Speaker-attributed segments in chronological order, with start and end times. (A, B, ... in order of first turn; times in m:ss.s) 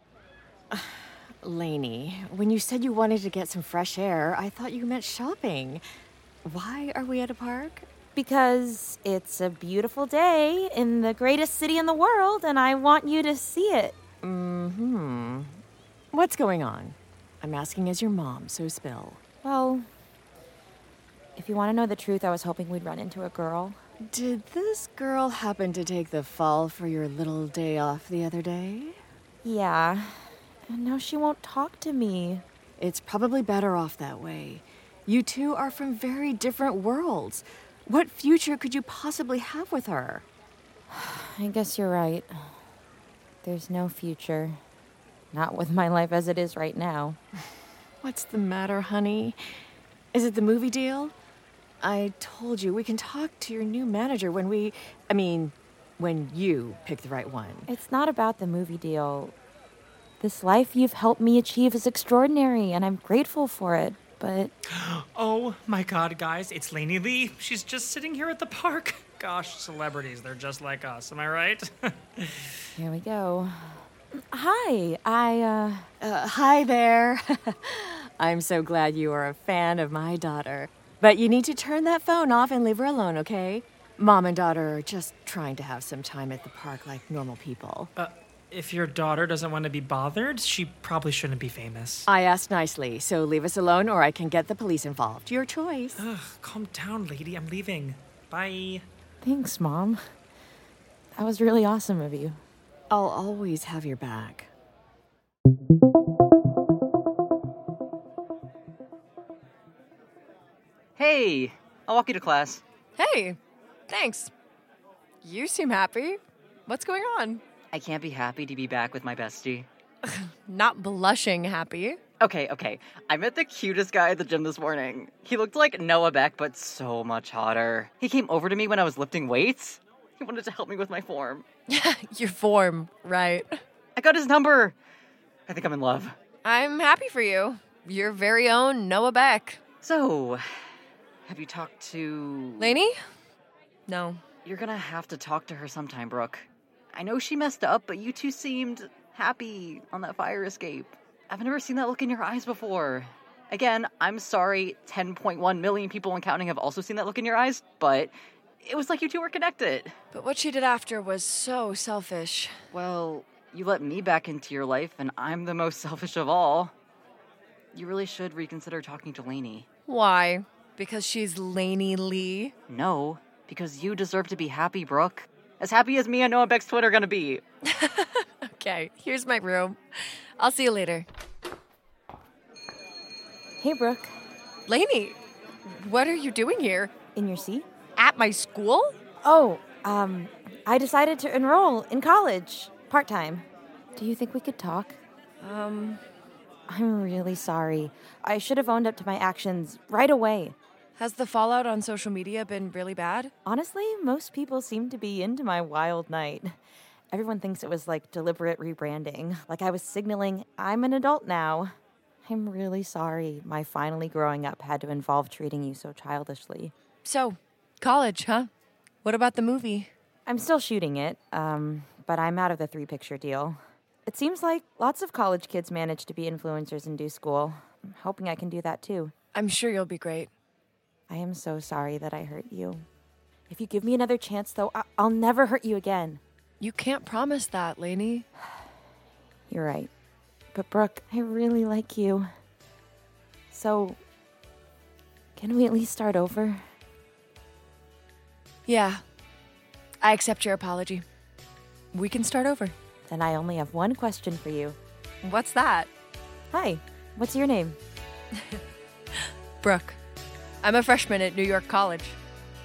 0:00.7-0:05.8 A
0:06.4-0:07.8 A
0:08.1-0:14.0 B
0:14.2-0:15.6 A
0:16.1-0:19.2 A
0:19.4-0:19.9 B
0:21.4-0:23.8 B
0:24.1-0:29.0 A
0:29.4-0:32.4 B
0:32.8-0:40.2 A
0:40.9-0:42.3 B
0:43.4-0:44.6 B
0:45.3-0:47.2 B
0:48.0-0:49.4 A
0:50.1-0:51.1 A
0:51.8-0:57.7 A
0:57.7-0:59.3 B
1:00.2-1:04.5 B
1:04.7-1:11.7 C
1:12.8-1:13.5 B
1:14.3-1:15.9 B
1:16.0-1:27.9 A
1:28.0-1:32.0 C
1:32.0-1:36.0 A
1:36.0-1:38.8 C
1:39.2-1:40.0 B
1:41.2-1:42.4 B
1:42.9-1:44.5 A
1:51.0-1:52.6 D
1:53.0-1:53.4 E
1:53.9-1:54.3 E
1:55.2-1:57.4 E
1:57.7-1:59.7 D
2:00.1-2:02.0 E
2:02.2-2:11.4 D
2:11.7-2:13.6 E
2:14.0-2:14.8 D
2:15.5-2:16.1 D
2:16.4-2:19.6 E
2:19.8-2:20.4 D
2:21.2-2:22.8 D
2:22.6-2:22.9 E
2:23.9-2:24.2 E
2:24.4-2:39.9 D
2:40.1-2:42.6 E
2:42.7-2:46.7 D
2:47.7-2:49.6 D
2:49.9-2:52.5 E
2:52.7-2:57.4 D
2:57.6-2:59.8 E
3:00.4-3:01.0 E
3:03.6-3:04.1 B
3:04.7-3:06.9 E
3:07.1-3:07.7 B
3:08.0-3:09.0 E
3:09.2-3:13.4 B
3:14.0-3:15.0 B
3:15.4-3:16.0 E
3:16.7-3:20.6 B
3:21.0-3:23.3 E
3:23.4-3:26.5 B
3:27.1-3:31.7 B
3:32.2-3:36.7 B
3:37.0-3:38.5 E
3:39.0-3:39.9 E
3:40.2-3:49.1 B
3:49.3-3:50.3 E
3:51.1-3:52.8 B
3:53.5-3:56.2 B
3:56.6-3:58.2 E
3:59.5-3:59.9 B
4:00.5-4:02.3 B
4:03.5-4:04.0 B
4:05.4-4:06.6 B
4:08.6-4:09.0 E
4:10.0-4:11.0 E
4:11.9-4:12.7 E
4:13.1-4:14.8 B
4:15.2-4:15.9 E
4:16.5-4:17.8 B
4:19.6-4:20.0 E
4:20.6-4:22.2 E